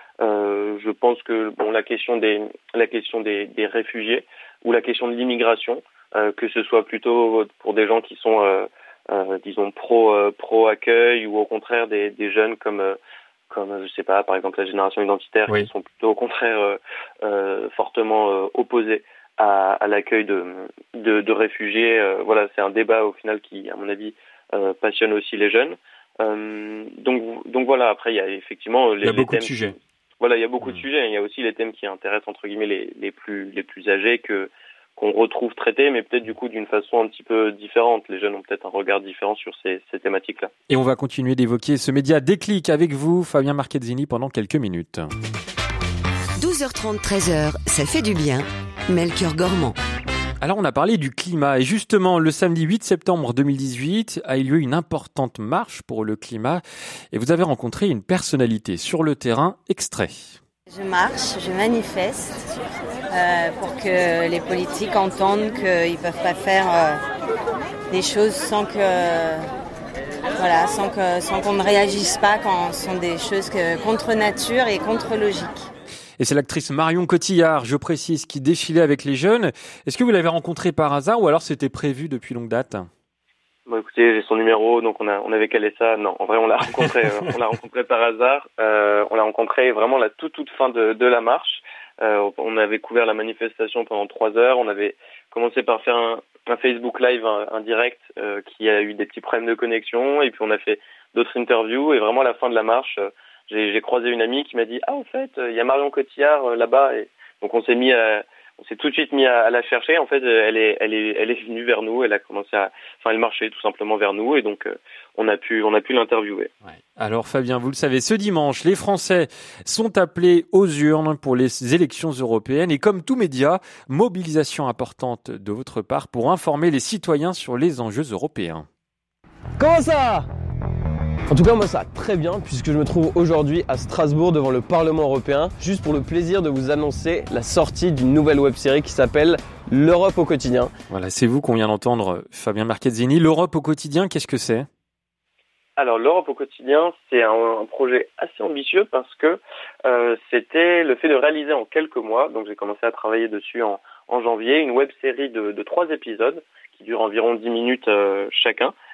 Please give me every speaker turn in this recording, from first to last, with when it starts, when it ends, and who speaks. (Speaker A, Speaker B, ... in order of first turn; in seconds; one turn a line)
Speaker A: 0.2-13.0
Speaker A: 13.5-29.7
Speaker B: 29.0-29.8
Speaker A: 30.2-40.5
Speaker B: 40.7-45.1
Speaker C: 46.4-49.8
Speaker B: 50.4-60.4
Speaker D: 60.7-62.5
Speaker D: 63.1-67.0
Speaker D: 67.9-69.5
Speaker D: 70.4-75.7
Speaker B: 76.2-82.9
Speaker A: 83.7-116.5
Speaker B: 117.0-128.7
Speaker E: 129.6-130.3
Speaker E: 131.3-140.7
Speaker B: 140.9-144.7
Speaker A: 145.8-158.7